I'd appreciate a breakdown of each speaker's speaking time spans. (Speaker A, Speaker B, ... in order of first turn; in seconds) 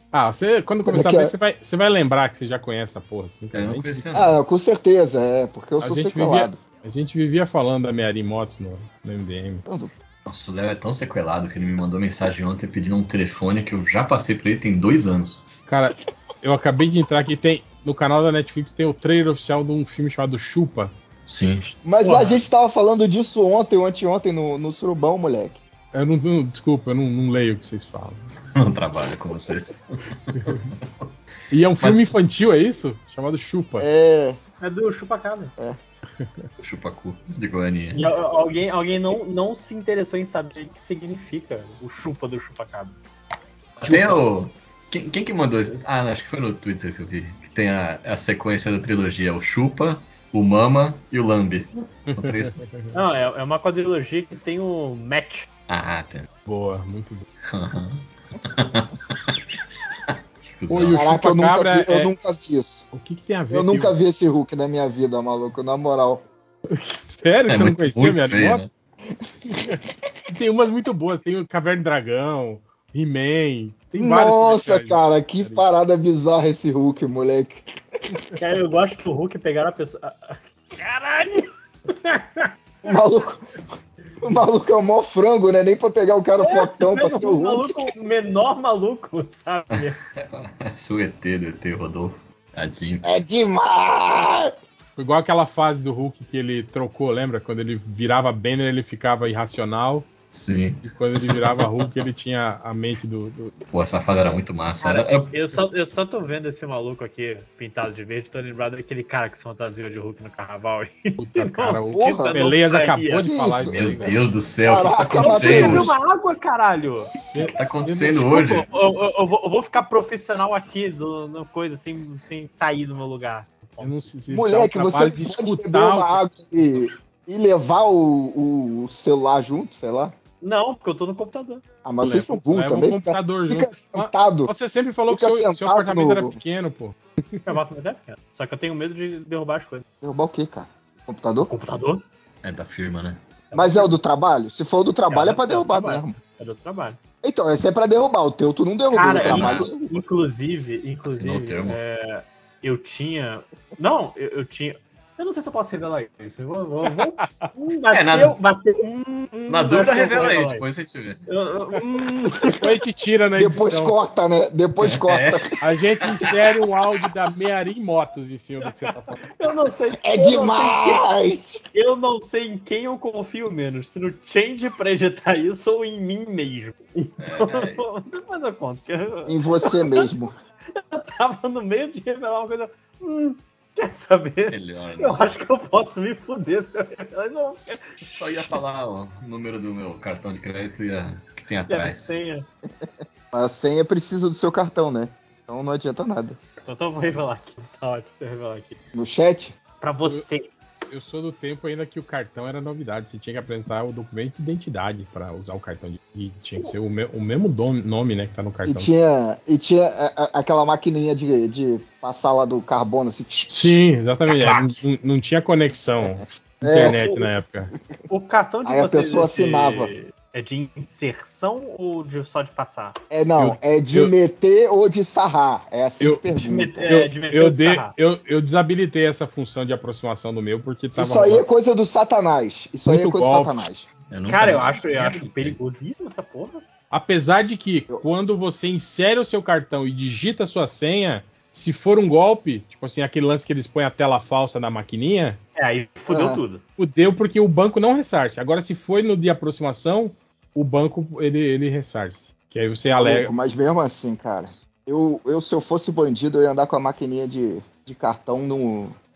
Speaker A: 0.1-4.0, 5.8-9.6, 15.7-20.9, 22.0-22.3, 25.9-28.2, 31.5-33.9, 52.1-53.0, 56.5-57.3, 60.7-62.1, 62.9-63.9, 66.7-68.7, 70.3-75.6, 95.0-100.1, 100.8-103.5, 111.2-114.2, 117.2-118.3, 123.8-126.3, 132.0-137.5, 162.6-163.9, 165.6-169.2, 200.9-208.9, 213.5-217.7, 223.4-224.1, 226.0-231.4, 232.8-233.6, 236.9-245.4, 246.8-253.3
Speaker B: 0.8-1.3, 4.1-6.6, 9.7-9.9, 21.8-25.6, 33.8-34.4, 43.9-44.1, 60.9-62.8, 63.5-66.2, 74.0-77.6, 82.8-83.5, 84.2-87.9, 93.0-94.5, 111.9-112.4, 113.2-114.0, 114.6-116.0, 124.3-130.1, 131.8-134.5, 135.1-136.4, 140.0-141.5, 143.5-146.2, 147.2-150.0, 163.4-165.5, 170.0-171.6, 179.2-180.3, 193.3-196.4, 198.9-199.6, 208.7-213.8, 214.4-214.7, 216.6-217.2, 218.6-219.9, 223.1-226.8, 230.9-233.9, 246.1-246.4, 252.9-258.9
Speaker C: 3.5-4.4, 10.2-15.4, 21.2-21.8, 28.6-30.9, 31.8-32.1, 36.6-38.0, 43.8-52.6, 55.7-56.3, 57.5-59.4, 60.1-61.0, 67.5-68.7, 89.7-93.1, 100.3-101.9, 103.7-105.3, 113.6-115.9, 117.4-118.7, 142.4-143.2, 149.1-149.7, 151.0-151.8, 157.9-158.3, 159.5-161.2, 164.8-166.3, 177.2-177.8, 184.5-185.2, 188.0-192.2, 234.1-235.6
Speaker D: 34.6-35.5, 37.9-43.0, 52.9-55.5, 78.4-82.5, 86.4-90.0, 104.8-113.3, 115.0-117.2, 118.2-123.9, 130.4-131.6, 137.4-139.8, 141.5-142.0, 143.5-143.9, 145.1-147.0, 148.9-160.6, 161.3-162.8, 168.6-171.1, 171.7-180.1, 180.7-188.6, 191.7-192.4, 196.6-198.8, 199.8-200.5, 216.7-217.2, 218.1-223.0, 226.4-227.9, 234.3-236.7, 245.6-246.6